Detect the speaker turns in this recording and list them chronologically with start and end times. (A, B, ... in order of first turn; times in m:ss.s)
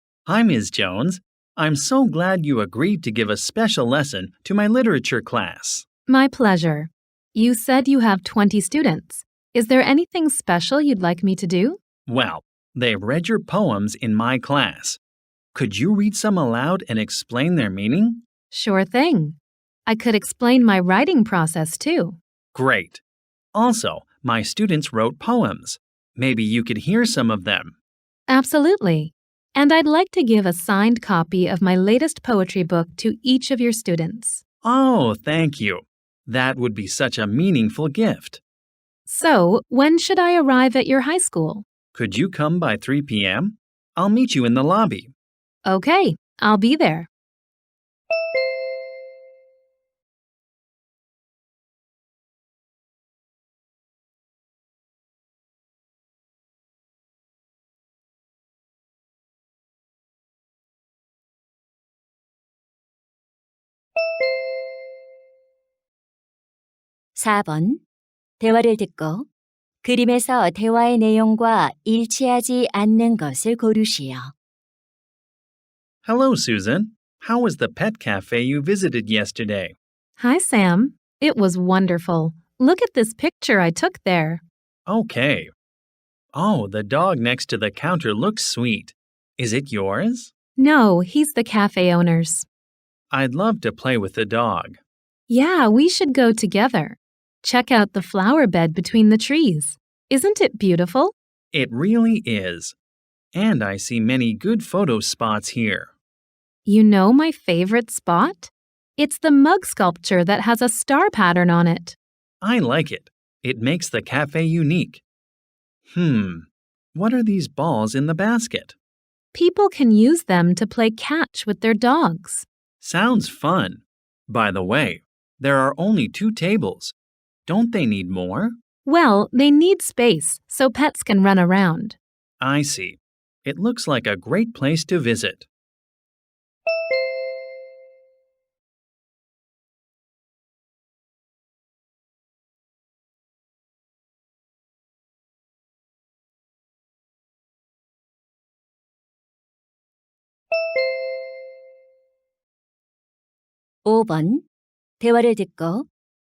0:00.2-0:05.8 A
0:06.1-0:11.8 B
0:12.0-0:15.0 A
0:15.5-0:18.2 A
0:18.5-0:22.2 B
0:22.5-0:23.0 A
0:23.5-0:27.7 A
0:28.3-0:34.4 B
0:34.6-0:38.4 A
0:39.0-0:41.6 B
0:41.9-0:45.1 A
0:45.6-0:47.1 B
1:07.1-1:07.8 C
1:08.4-1:09.3 C
1:09.8-1:14.3 C
1:16.0-1:19.8 A
1:20.2-1:24.4 B
1:24.8-1:25.5 A
1:26.3-1:30.3 A
1:30.6-1:32.5 B
1:33.1-1:34.8 A
1:35.3-1:41.1 B
1:41.5-1:42.7 A
1:43.3-1:45.9 A
1:46.6-1:52.0 B
1:52.4-1:55.0 A
1:55.9-1:58.8 A
1:59.3-2:02.5 B
2:02.8-2:06.9 A
2:07.5-2:08.5 A
2:08.8-2:12.0 B
2:12.4-2:15.5 A
2:33.8-2:34.4 C
2:35.0-2:35.9 C